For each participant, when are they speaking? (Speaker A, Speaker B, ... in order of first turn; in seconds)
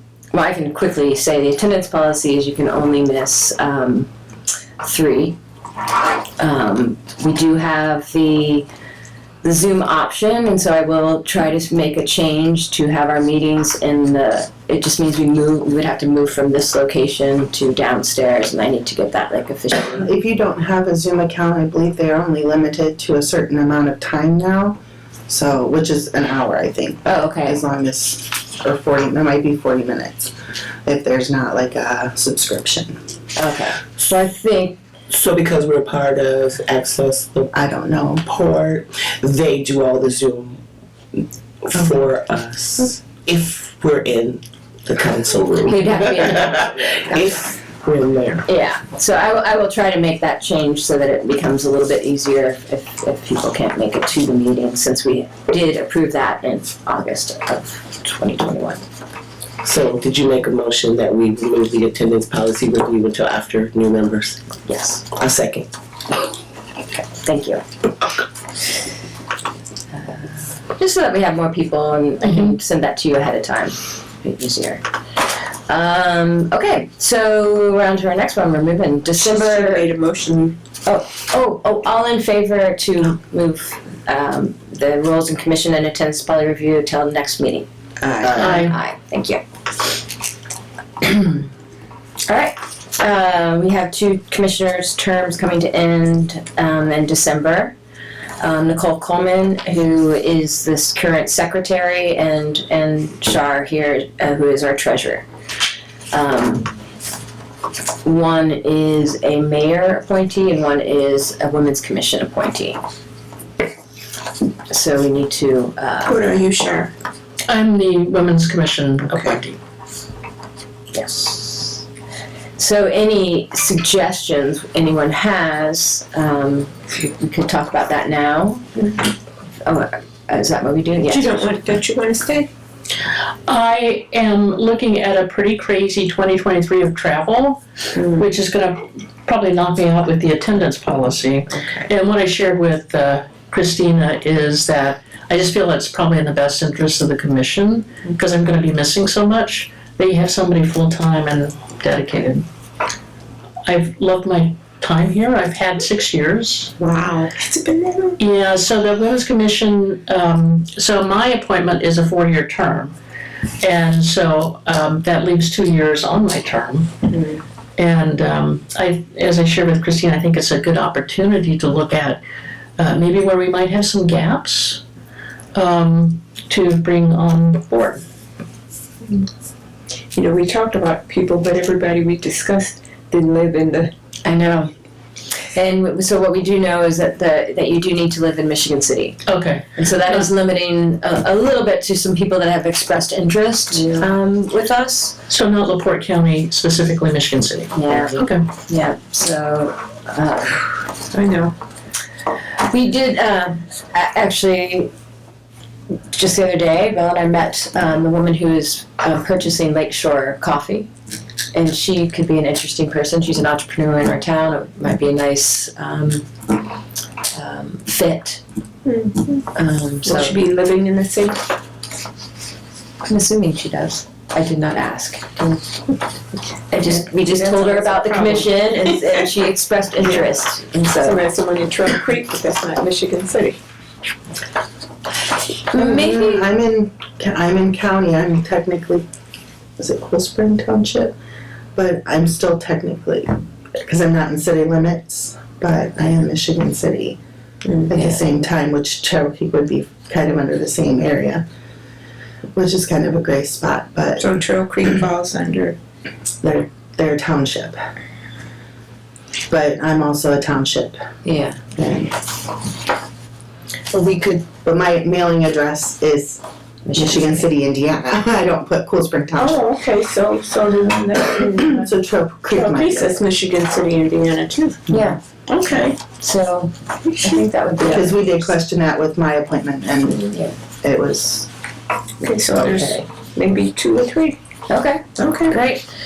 Speaker A: 0.3-4.1, 4.8-5.4, 6.4-8.7, 9.4-20.1, 27.0-27.6, 33.4-34.8, 45.6-47.5, 48.5-58.8, 64.7-65.0, 66.9-67.6, 70.7-74.8, 75.7-79.8, 80.8-87.7, 88.2-90.0, 91.0-91.4, 92.3-97.7, 98.4-105.3, 106.1-106.7, 108.0-112.8, 114.7-116.2, 120.9-121.8, 122.6-128.6, 129.6-131.4, 184.2-184.7, 185.4-189.2, 189.8-195.2, 197.7-200.8, 202.6-204.9, 206.1-210.9, 211.5-216.3, 217.3-218.4, 219.5-220.4, 223.0-225.6, 226.7-231.2, 235.7-236.5, 261.2-261.6, 266.9-267.4, 274.9-275.2, 276.1-278.2, 282.6-283.0, 284.7-285.9
Speaker B: 19.8-30.3, 30.8-33.0, 37.5-38.3, 88.0-88.6, 235.7-239.1, 239.8-241.1, 241.7-247.2, 247.9-251.4, 252.5-254.3, 256.4-257.8, 259.5-261.0, 261.8-262.3, 264.4-266.4, 266.9-269.6, 271.5-273.2, 277.8-280.2, 280.8-281.5
Speaker C: 35.1-37.5, 38.2-40.6, 41.6-48.4, 59.6-64.4, 65.1-65.7
Speaker D: 79.1-80.6, 116.0-116.9, 131.1-132.5, 137.9-138.2, 156.8-158.2, 167.1-167.4, 180.1-183.9, 193.7-194.1, 201.1-201.5, 218.8-219.4, 220.0-221.5, 226.8-229.2, 230.0-230.3, 230.8-233.6, 247.6-248.0, 254.2-255.8, 269.3-271.9, 272.5-274.9, 275.5-276.0, 277.1-277.9, 282.2-284.4, 285.1-285.6
Speaker E: 88.3-88.8, 117.5-119.6, 133.5-152.4, 153.7-156.7, 158.2-162.9, 163.6-166.9, 167.8-172.2, 172.8-174.8, 175.5-178.0, 189.3-190.3, 195.3-198.4